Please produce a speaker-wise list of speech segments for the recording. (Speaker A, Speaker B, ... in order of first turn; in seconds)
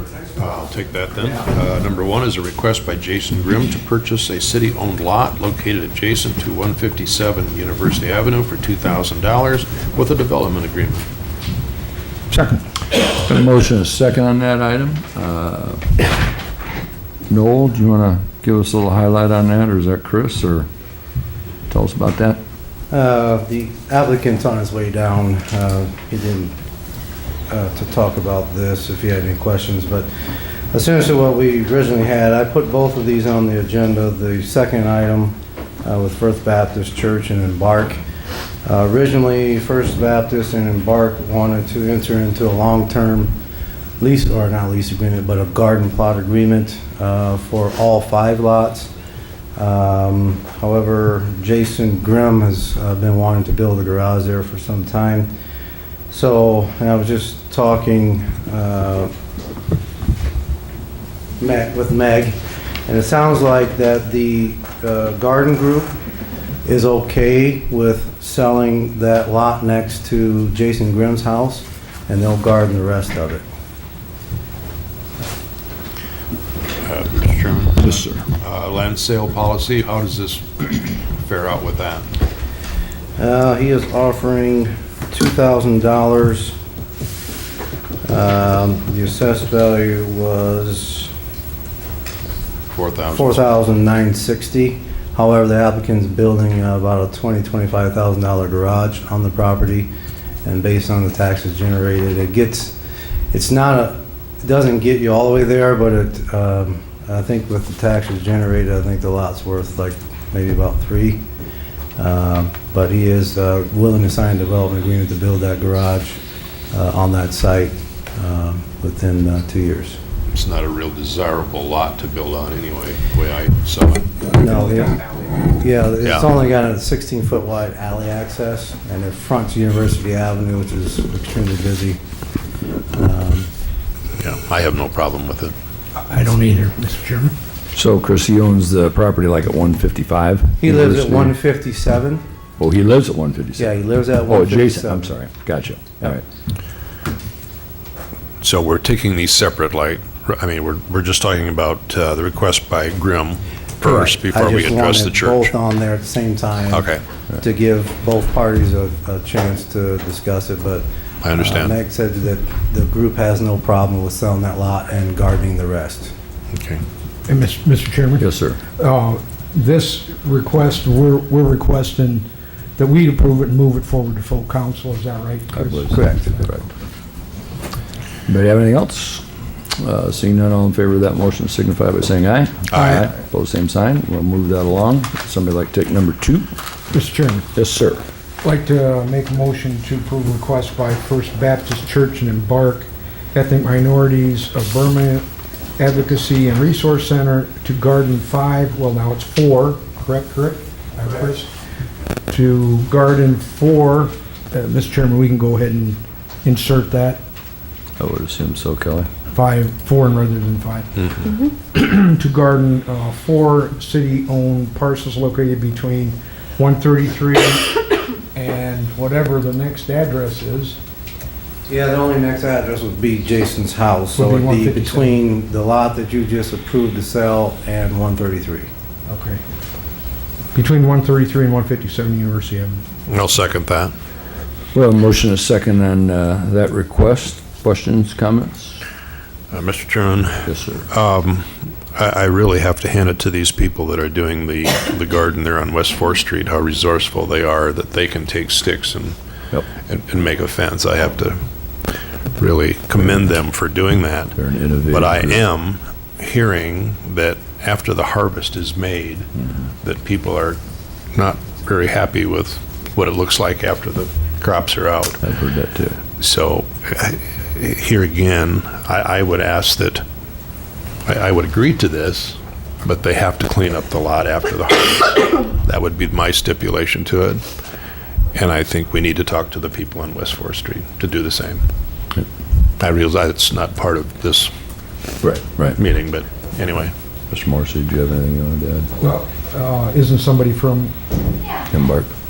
Speaker A: 0.4-11.1, 76.8-82.1, 92.7-93.4, 120.3-124.3, 134.2-135.6, 148.4-155.5, 156.7-157.0, 161.2-161.7, 166.5-166.8, 182.7-183.0, 233.1-233.9, 239.5-249.2, 249.8-251.4, 252.4-254.4, 254.9-259.3, 259.8-260.6, 261.1-265.2, 266.2-270.0, 271.1-277.4, 278.3-281.6, 282.8-284.5, 285.7-286.9
Speaker B: 13.2-16.1, 17.3-20.7, 21.7-22.4, 137.8-141.3, 142.6-143.8, 144.3-146.2, 168.2-168.6, 175.6-176.7, 178.3-179.2, 179.8-186.5, 187.5-188.0, 208.0-209.1, 234.7-238.8, 240.4-240.9, 254.4-255.4, 265.2-266.0, 285.2-285.8, 287.3-288.9, 291.7-292.1
Speaker C: 22.9-26.6, 27.5-30.1, 30.7-38.0, 38.7-43.3, 44.0-48.9, 49.6-55.3, 56.1-59.1, 61.4-66.0, 66.7-73.4, 83.2-86.5, 88.1-91.1, 93.1-99.9, 100.5-102.8, 103.3-111.2, 112.0-116.2, 116.7-120.0, 124.3-132.0, 132.9-133.5, 140.6-142.2, 143.6-145.2, 153.8-166.1, 221.7-228.7
Speaker D: 135.9-137.3, 167.3-176.5, 182.8-183.0, 186.9-187.5, 188.4-201.5, 202.3-207.2, 209.3-217.8, 218.3-220.8, 224.2-225.1, 229.1-229.4, 230.5-232.8, 289.0-290.9